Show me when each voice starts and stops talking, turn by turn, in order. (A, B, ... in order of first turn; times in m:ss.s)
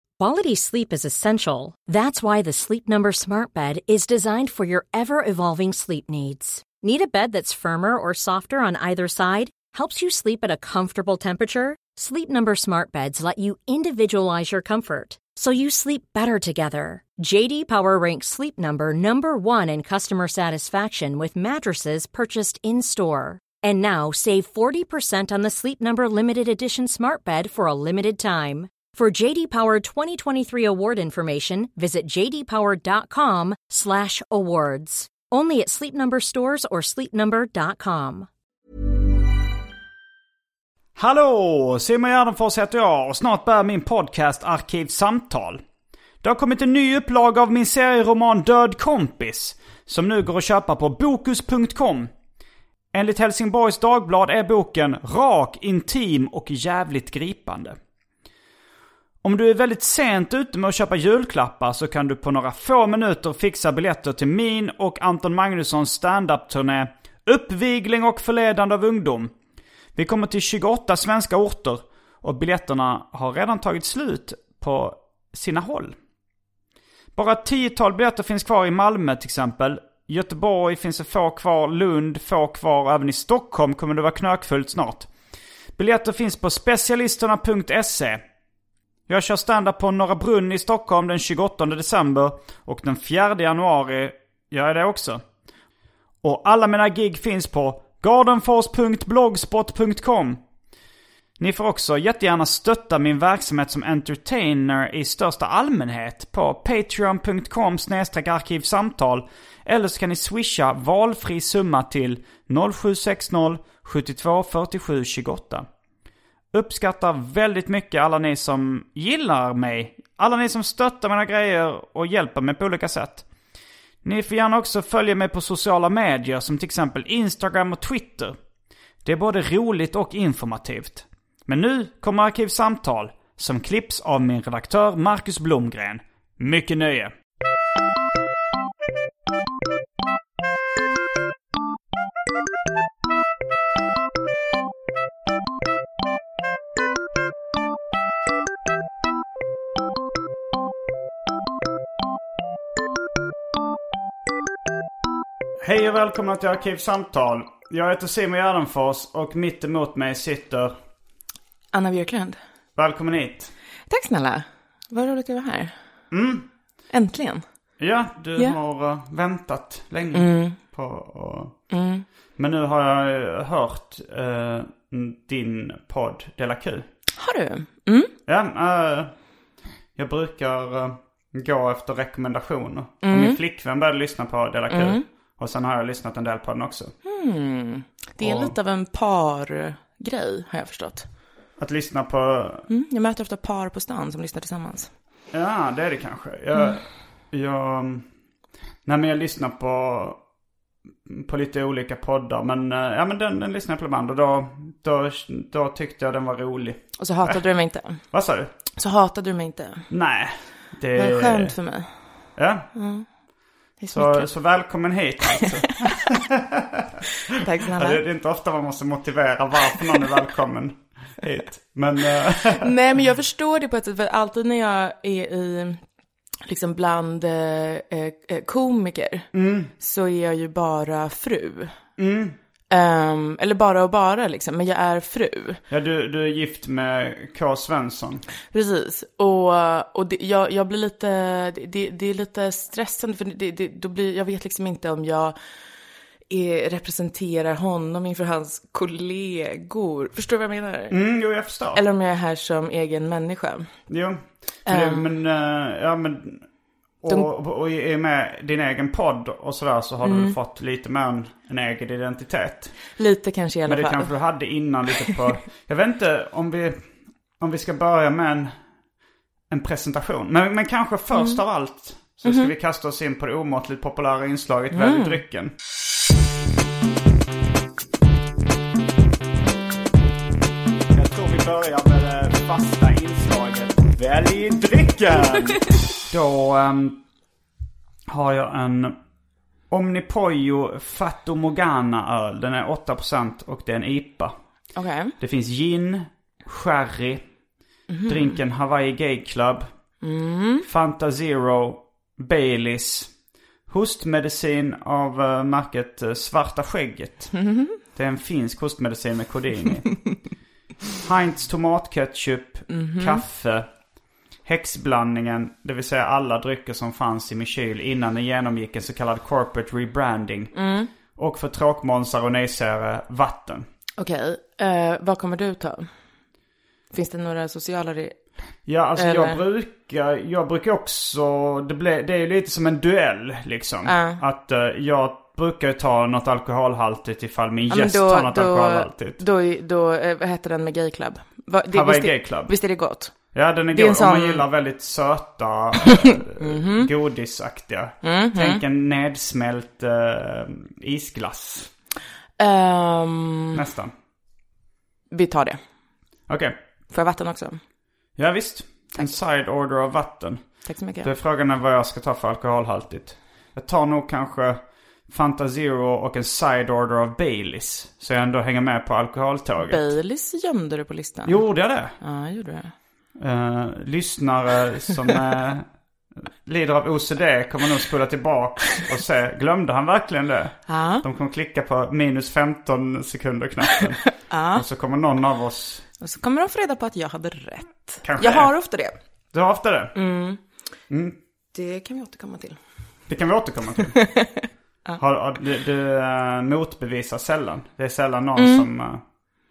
0:00.2-0:38.3 A
0:41.0-0:45.6 B
0:46.2-0:52.1 B
0:52.9-0:57.8 B
0:59.2-1:09.3 B
1:10.0-1:16.0 B
1:17.2-1:25.1 B
1:25.8-1:28.2 B
1:29.1-1:35.2 B
1:36.2-1:40.4 B
1:41.4-1:55.7 B
1:56.5-2:03.3 B
2:04.0-2:08.4 B
2:09.0-2:17.1 B
2:35.6-2:40.8 B
2:41.7-2:42.4 C
2:42.8-2:43.5 B
2:43.9-2:45.7 C
2:46.1-2:46.5 B
2:46.9-2:47.4 C
2:47.8-2:51.6 B
2:50.1-2:50.6 C
2:51.7-2:52.1 C
2:52.4-2:56.9 B
2:57.2-2:58.1 C
2:58.3-2:59.1 B
3:00.0-3:06.9 B
3:03.0-3:03.4 C
3:04.7-3:05.0 C
3:07.0-3:11.1 C
3:08.2-3:08.5 B
3:11.6-3:12.7 B
3:12.7-3:14.9 C
3:15.3-3:18.1 B
3:18.8-3:20.2 B
3:21.1-3:27.4 B
3:27.0-3:28.0 C
3:28.1-3:28.5 B
3:28.8-3:29.9 C
3:29.9-3:31.5 B
3:31.0-3:33.1 C
3:32.4-3:32.7 B
3:33.8-3:34.3 C
3:33.9-3:37.0 B
3:37.3-3:38.0 C
3:37.7-3:42.7 B
3:42.5-3:45.8 C
3:46.5-3:51.8 C
3:49.3-3:49.7 B
3:52.0-3:52.4 B
3:52.7-3:55.6 C
3:55.7-3:58.2 B
3:58.5-4:05.4 C
4:06.3-4:11.0 C
4:10.9-4:11.8 B
4:11.7-4:13.7 C
4:13.9-4:16.5 B
4:14.7-4:15.1 C
4:17.0-4:22.8 B
4:20.0-4:20.4 C
4:23.0-4:24.1 C
4:23.7-4:28.6 B
4:29.5-4:35.5 B
4:31.1-4:31.4 C
4:32.2-4:32.5 C
4:34.7-4:35.2 C
4:40.9-4:47.0 B
4:48.1-4:49.0 B
4:49.7-4:54.4 B
4:54.8-4:55.2 C
4:55.2-4:57.3 B
4:57.9-4:58.4 C
4:58.1-4:59.7 B
5:00.0-5:00.7 C
5:00.6-5:03.1 B
5:03.7-5:07.4 B
5:07.4-5:07.8 C
5:07.9-5:10.1 B
5:11.0-5:13.7 B
5:12.7-5:13.2 C
5:14.4-5:20.6 B
5:20.6-5:20.9 C
5:21.1-5:23.7 B
5:24.0-5:25.9 C
5:26.9-5:28.2 C
5:28.7-5:39.2 B
5:29.0-5:29.4 C
5:33.8-5:34.2 C
5:37.7-5:43.2 C
5:41.7-5:42.6 B
5:43.3-5:51.7 B
5:43.7-5:44.4 C
5:45.9-5:46.9 C
5:48.0-5:48.6 C
5:52.4-5:53.6 C
5:53.5-5:53.9 B
5:55.1-5:55.6 C
5:56.3-5:56.6 B
5:56.9-5:57.6 C
5:58.2-6:09.9 B
6:00.6-6:01.1 C
6:09.6-6:12.7 C
6:11.3-6:12.0 B
6:13.2-6:25.9 B
6:20.7-6:21.0 C
6:24.2-6:24.6 C
6:26.0-6:29.0 C
6:28.0-6:28.5 B
6:29.3-6:30.0 B
6:30.0-6:30.4 C
6:30.9-6:31.2 B
6:31.5-6:32.6 C
6:33.1-6:34.0 B
6:34.0-6:35.0 C
6:35.0-6:39.0 B
6:38.4-6:38.7 C